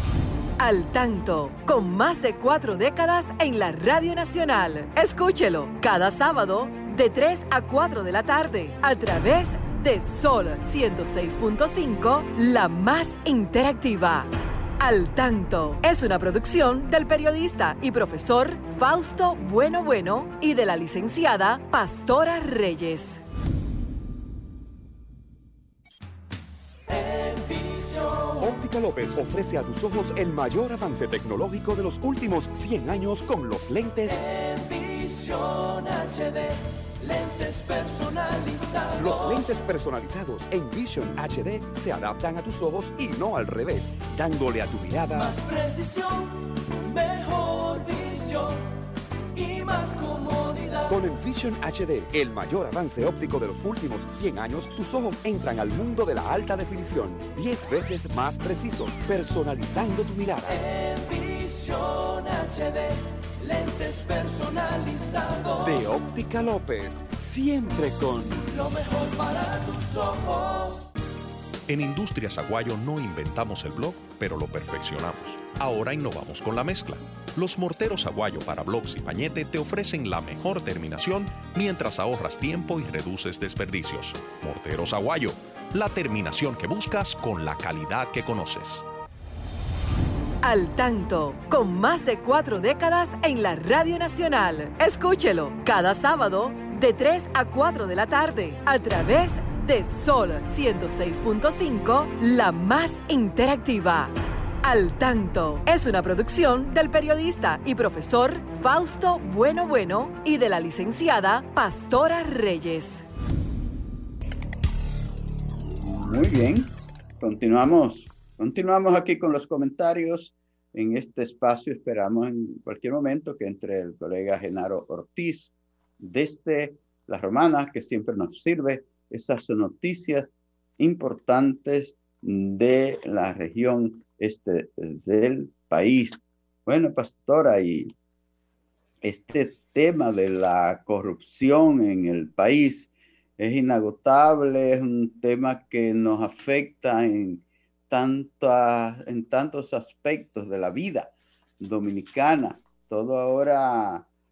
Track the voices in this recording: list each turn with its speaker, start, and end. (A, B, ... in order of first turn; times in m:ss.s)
0:00.6-0:23.2 A
0:26.9-0:28.5 B
0:28.4-0:34.3 C
0:34.0-0:39.6 B
0:39.0-0:45.4 C
0:45.1-0:48.6 B
0:49.3-0:51.0 B
0:50.9-1:00.6 C
1:00.4-1:06.0 B
1:05.6-1:08.5 C
1:08.4-1:10.9 B
1:11.7-1:28.8 D
1:30.4-1:53.0 A
1:55.8-2:17.9 E
2:19.0-2:34.0 E